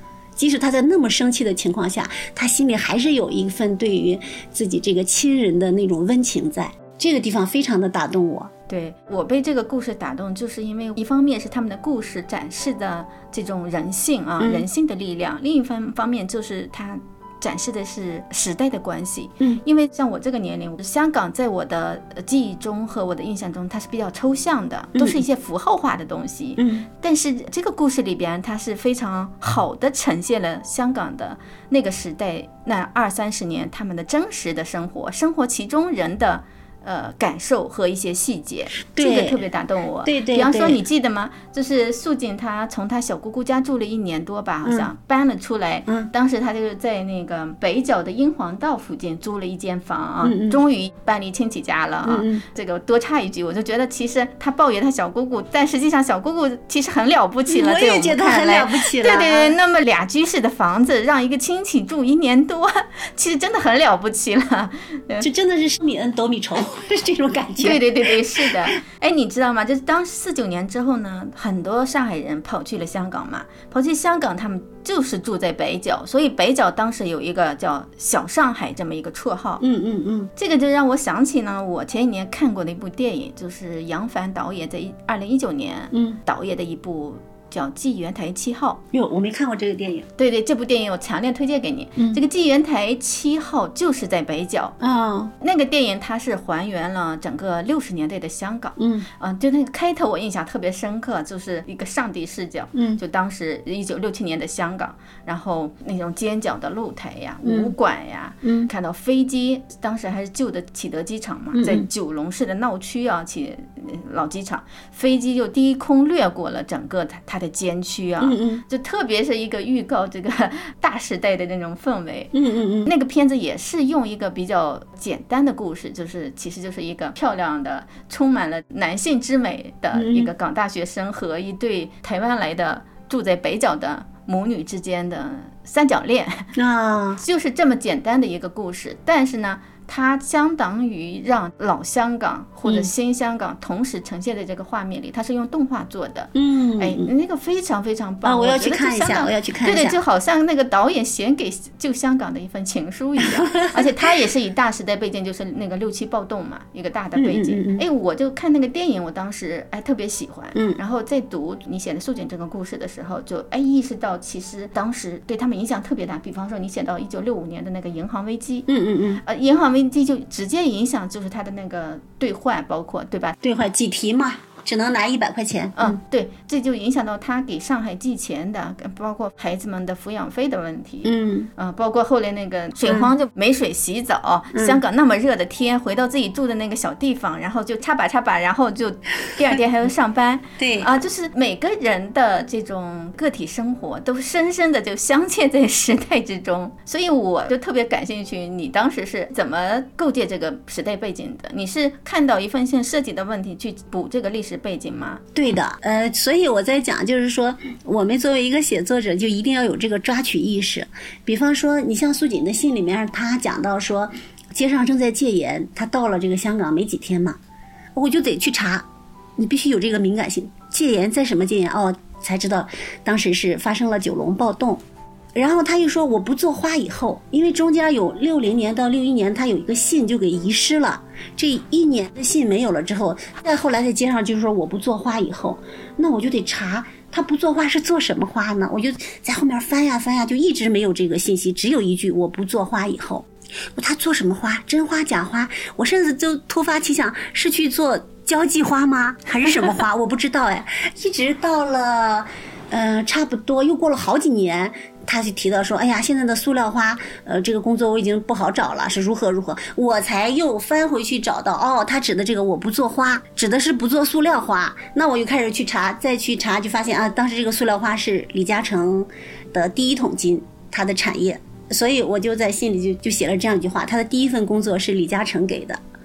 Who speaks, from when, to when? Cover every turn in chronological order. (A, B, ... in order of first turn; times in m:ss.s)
0:00.4-0:08.5 A
0:08.7-1:05.3 B
0:14.4-0:14.7 A
0:25.0-0:25.2 A
0:26.6-0:26.9 A
0:38.9-0:39.4 A
0:40.0-0:40.8 A
0:44.6-0:44.9 A
0:50.2-0:50.6 A
0:52.1-0:52.4 A
0:57.5-0:59.6 A
1:05.2-1:08.7 A
1:07.6-1:19.6 B
1:19.6-1:20.3 A
1:20.4-1:28.8 B
1:25.9-1:26.2 A
1:28.9-1:30.1 A
1:30.2-1:34.8 B
1:34.8-1:35.3 A
1:35.4-2:02.3 B
1:38.8-1:39.1 A
1:42.7-1:43.0 A
1:47.4-1:47.7 A
1:48.4-1:48.7 A
1:51.5-1:51.9 A
1:58.2-1:58.6 A
2:02.3-2:02.9 A
2:02.8-2:16.5 B
2:09.9-2:10.3 A
2:16.6-2:17.2 A
2:17.2-2:48.7 B
2:22.6-2:22.9 A
2:26.3-2:27.1 A
2:28.2-2:30.0 A
2:37.2-2:37.8 A
2:40.5-2:40.8 A
2:48.7-2:49.2 A
2:49.2-2:53.4 B
2:53.4-2:56.0 A
2:55.8-3:25.2 B
3:01.0-3:01.5 A
3:02.9-3:03.1 A
3:04.5-3:04.8 A
3:10.6-3:10.9 A
3:25.4-3:37.4 A
3:38.0-3:38.9 A
3:39.4-3:44.8 A
3:45.4-4:35.8 A